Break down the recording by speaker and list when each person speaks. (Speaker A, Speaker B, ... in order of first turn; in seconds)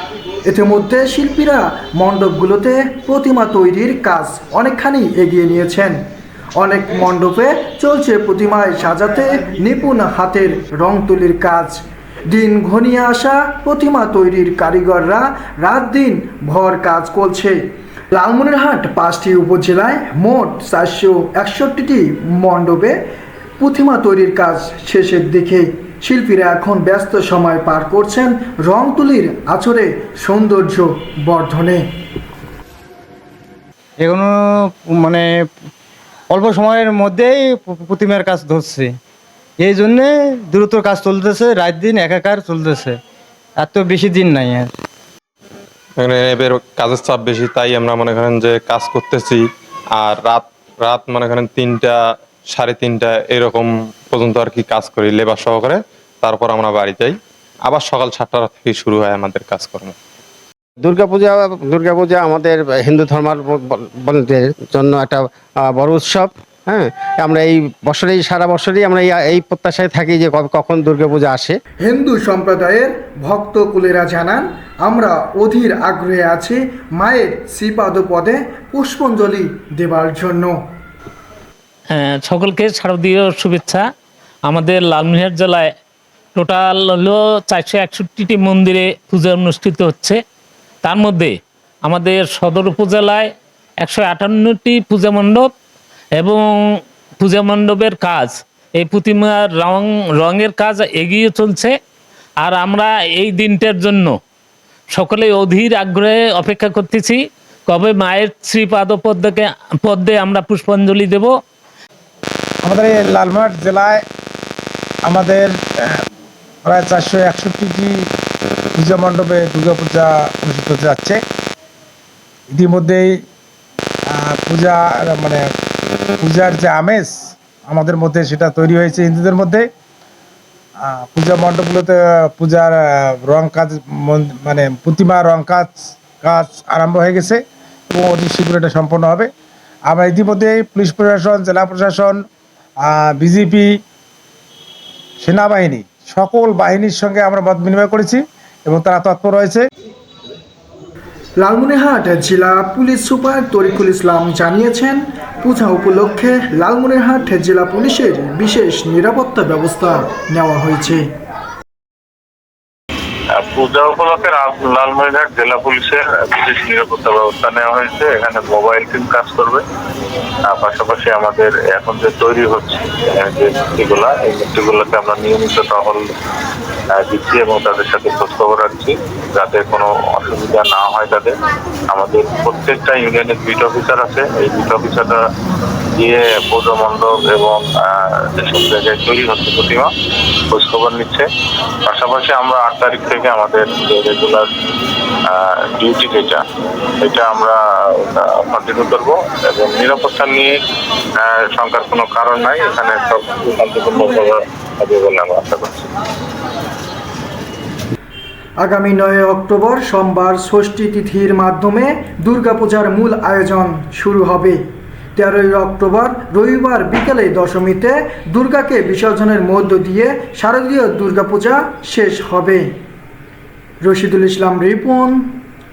Speaker A: 0.4-6.0, 6.6-17.6, 18.1-23.0, 23.6-31.9, 71.8-80.6, 151.4-161.0, 208.6-214.6, 215.2-222.8, 223.8-225.3
Speaker B: 34.0-35.5, 36.3-38.9, 39.6-43.0, 43.6-44.7
Speaker C: 46.0-49.4, 50.0-51.9, 52.5-60.0
Speaker D: 60.8-71.5
Speaker E: 81.9-83.8, 84.5-85.7, 86.3-90.2, 90.8-93.3, 93.8-95.5, 96.2-96.6, 97.2-101.7, 102.4-104.2, 104.9-111.3
Speaker F: 112.6-114.0, 115.0-116.0, 116.7-118.0, 118.8-121.2, 122.5-123.2, 124.1-125.4, 126.2-129.7, 130.8-139.3, 139.9-142.2, 142.8-143.7, 145.2-149.6
Speaker G: 163.3-169.6, 170.5-176.0, 176.9-181.3, 181.9-185.2, 186.0-189.9, 190.5-191.2, 191.8-194.4, 195.3-196.4, 197.0-200.5, 201.2-205.9